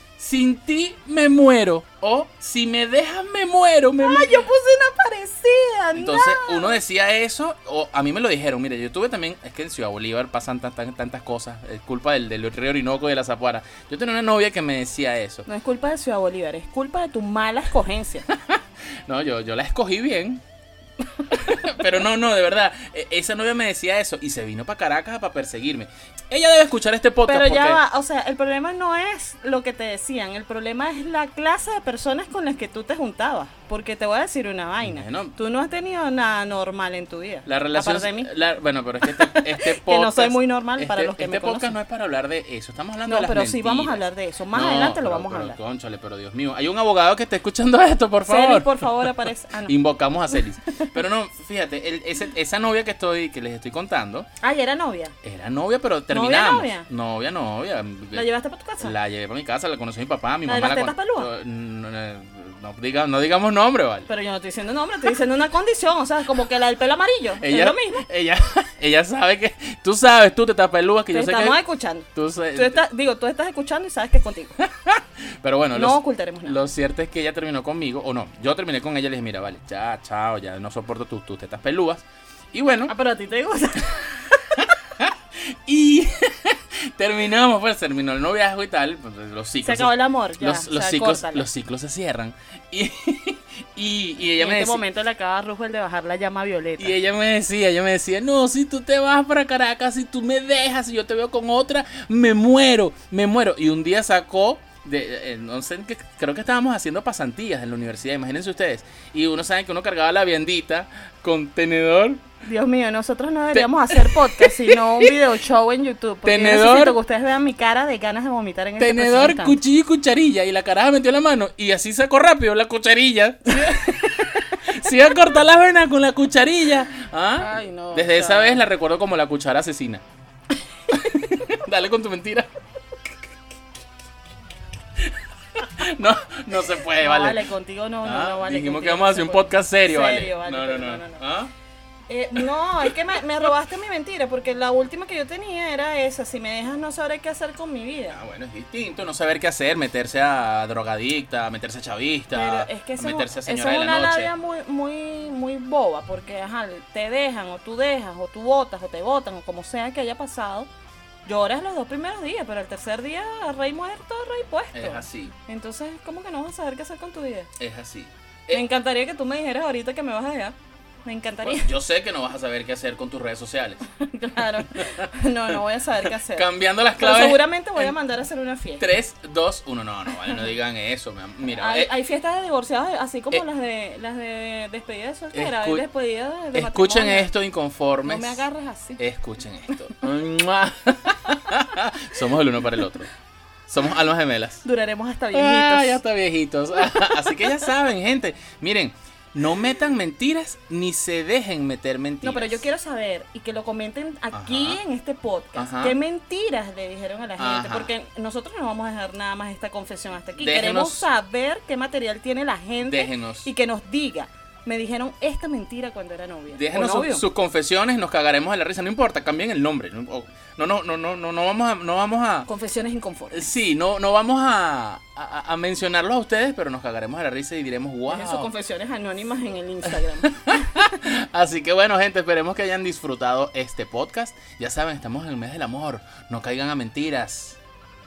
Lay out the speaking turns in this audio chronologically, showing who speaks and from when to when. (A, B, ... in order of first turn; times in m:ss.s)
0:00.2-0:04.5 A
0:04.0-0:06.8 B
0:05.9-0:15.4 A
0:15.5-0:18.3 B
0:18.3-0:20.4 A
0:21.3-0:27.8 A
0:27.2-0:38.3 B
0:34.8-0:35.3 A
0:37.4-0:44.0 A
0:39.0-0:41.8 B
0:43.0-0:45.6 B
0:44.5-0:54.3 A
0:48.2-0:49.7 B
0:50.3-0:50.9 B
0:54.4-0:55.1 B
0:55.2-0:58.3 A
0:56.1-0:56.8 B
0:58.1-0:58.9 B
0:58.8-1:04.1 A
1:00.4-1:01.3 B
1:04.1-1:08.0 B
1:07.4-1:11.6 A
1:11.1-1:14.5 B
1:12.1-1:12.8 A
1:14.6-1:22.9 A
1:15.7-1:16.6 B
1:22.9-1:24.5 B
1:24.6-1:34.8 A
1:29.6-1:31.5 B
1:34.4-1:37.0 B
1:36.8-1:52.2 A
1:52.4-1:59.6 B
1:53.5-1:55.2 A
1:56.2-1:57.0 A
1:58.8-2:10.0 A
2:07.4-2:08.6 B
2:10.9-2:12.5 A
2:15.0-2:17.4 A
2:16.9-2:21.2 B
2:18.0-2:21.5 A
2:22.1-2:28.2 B
2:22.4-2:23.0 A
2:28.1-2:34.3 A
2:32.3-2:40.7 B
2:41.2-2:47.5 B
2:44.7-2:45.3 A
2:47.6-2:48.6 A
2:48.5-2:51.7 B
2:51.4-2:53.8 A
2:54.0-2:58.9 B
2:54.7-2:57.9 A
2:58.8-3:01.9 A
3:01.5-3:07.3 B
3:05.3-3:05.8 A
3:06.5-3:08.4 A
3:08.0-3:09.0 B
3:09.0-3:13.1 A
3:13.7-3:14.6 A
3:14.6-3:16.0 B
3:15.3-3:22.7 A
3:22.2-3:37.2 B
3:24.3-3:24.8 A
3:25.6-3:26.0 A
3:27.4-3:27.9 A
3:30.4-3:31.1 A
3:32.8-3:33.5 A
3:36.5-3:42.5 A
3:42.4-3:43.5 B
3:43.3-3:48.5 A
3:48.1-3:50.5 B
3:50.2-3:57.6 A